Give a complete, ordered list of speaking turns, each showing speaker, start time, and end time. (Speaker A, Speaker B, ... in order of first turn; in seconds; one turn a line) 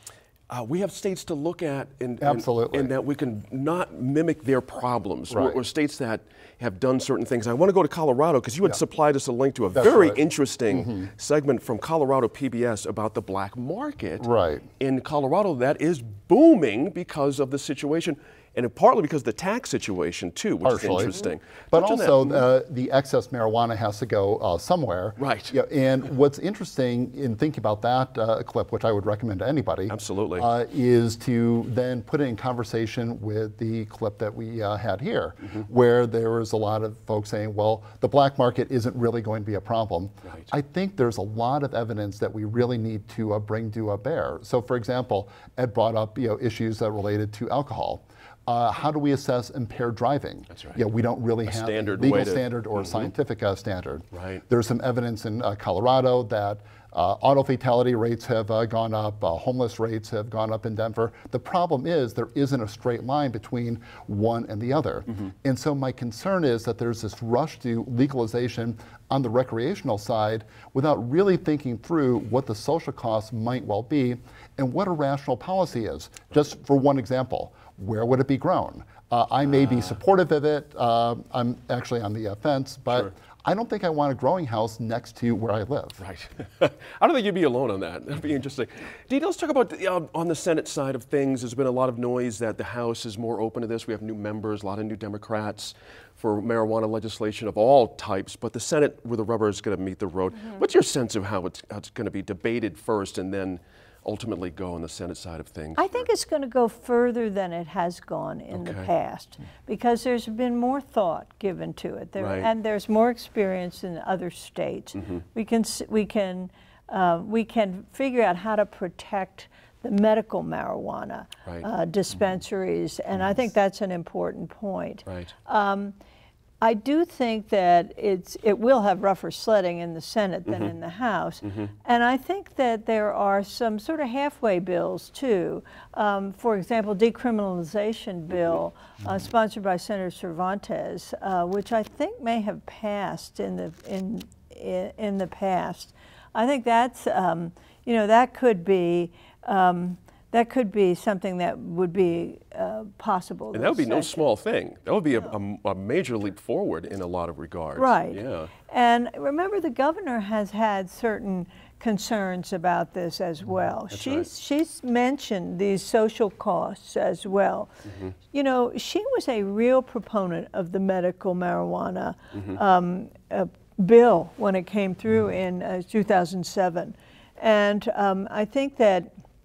Speaker A: 0.5-14.3
Speaker B: 2.2-2.9
Speaker B: 5.3-5.6
Speaker B: 9.7-11.0
Speaker B: 14.2-14.7
Speaker A: 14.8-22.4
Speaker B: 20.6-86.0
Speaker A: 25.2-25.6
Speaker A: 29.9-30.5
Speaker A: 40.2-40.5
Speaker A: 50.5-50.8
Speaker A: 51.4-53.1
Speaker A: 54.1-54.4
Speaker A: 79.4-80.0
Speaker A: 86.0-106.1
Speaker C: 105.8-126.0
Speaker A: 108.5-108.9
Speaker A: 112.2-112.5
Speaker A: 125.0-125.3
Speaker C: 126.6-154.2
Speaker A: 153.5-158.5
Speaker C: 157.8-167.7
Speaker A: 163.9-164.3
Speaker A: 167.9-168.1
Speaker C: 168.3-179.1